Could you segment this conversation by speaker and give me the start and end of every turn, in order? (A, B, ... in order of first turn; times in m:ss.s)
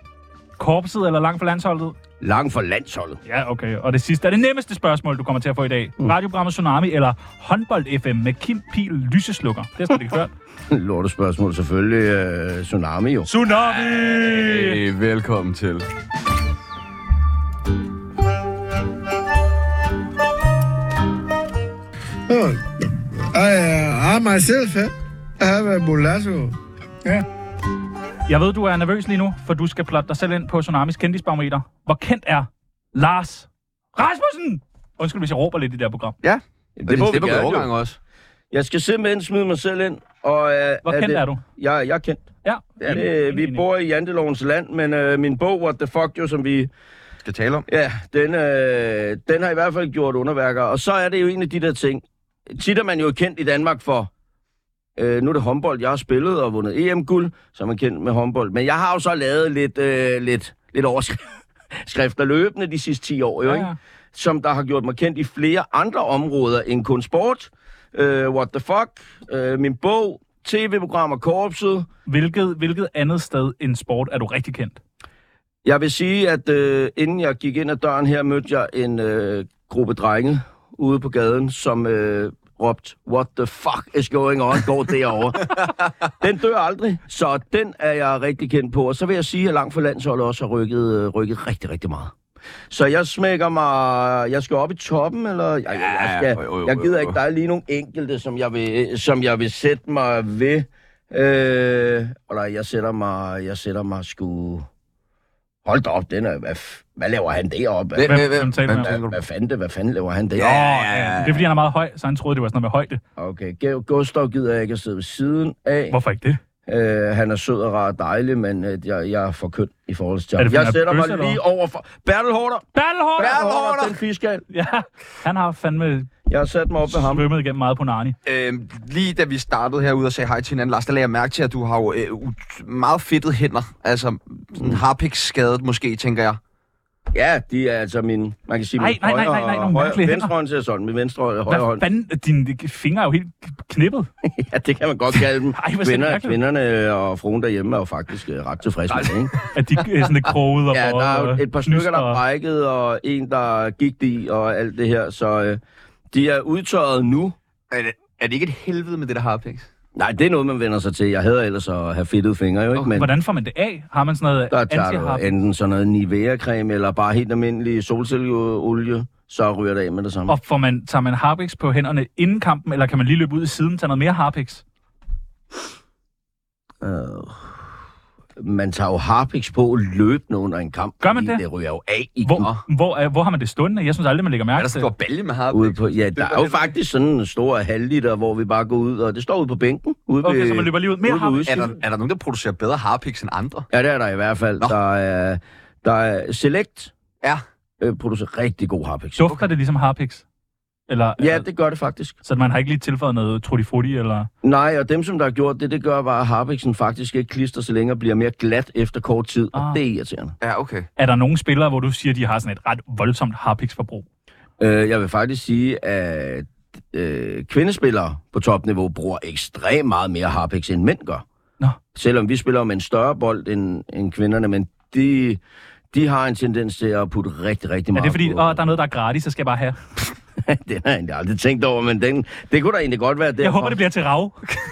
0:00.6-0:02.0 A
0:02.2-0:03.2 B
0:03.2-0:10.3 A
0:10.7-0:13.3 B
0:13.3-0:14.8 A
0:13.7-0:15.8 C
0:22.3-0:22.6 D
0:23.3-0:24.9 D
0:25.4-0:26.5 D
0:28.3-0:36.2 A
0:36.2-0:38.0 C
0:36.8-0:37.7 B
0:38.5-0:42.3 B
0:40.8-0:41.4 A
0:42.4-0:43.6 A
0:42.8-0:46.7 B
0:47.2-0:47.6 C
0:47.7-0:54.1 B
0:55.0-1:11.9 B
1:03.4-1:03.8 A
1:12.1-1:14.8 A
1:15.6-1:32.1 B
1:32.7-1:44.7 B
1:35.7-1:37.2 C
1:45.6-1:50.7 B
1:47.9-1:49.2 C
1:48.1-1:49.0 A
1:50.4-1:51.4 C
1:50.4-1:53.0 A
1:53.2-1:56.0 B
1:55.9-1:56.4 A
1:56.7-2:02.6 B
2:00.4-2:01.4 A
2:02.7-2:03.4 A
2:03.2-2:04.4 B
2:03.2-2:04.0 C
2:04.5-2:06.1 A
2:06.3-2:07.3 B
2:06.9-2:08.2 A
2:08.2-2:16.4 C
2:17.1-2:21.8 B
2:18.8-2:20.3 A
2:21.5-2:24.1 A
2:24.2-2:29.3 B
2:25.5-2:26.4 A
2:29.5-2:32.2 A
2:30.7-2:35.6 B
2:36.1-2:37.4 B
2:37.7-2:39.7 C
2:40.0-2:43.1 B
2:42.9-2:45.4 A
2:44.5-2:50.3 B
2:50.3-2:54.6 A
2:56.8-2:57.6 B
2:58.4-3:02.5 B
3:01.0-3:01.4 A
3:02.2-3:04.9 A
3:04.6-3:06.7 C
3:05.5-3:11.7 B
3:10.2-3:11.7 A
3:11.5-3:13.7 C
3:13.7-3:16.9 B
3:17.8-3:19.4 B
3:19.2-3:20.2 A
3:20.9-3:21.4 A
3:21.2-3:22.2 B
3:22.2-3:24.3 A
3:24.4-3:30.3 B
3:29.5-3:29.8 A
3:30.4-3:30.9 C
3:31.0-3:34.0 A
3:34.6-3:41.2 B
3:41.9-3:45.4 B
3:45.9-3:48.6 B
3:47.9-3:49.8 A
3:50.4-3:53.8 B
3:53.4-3:54.4 A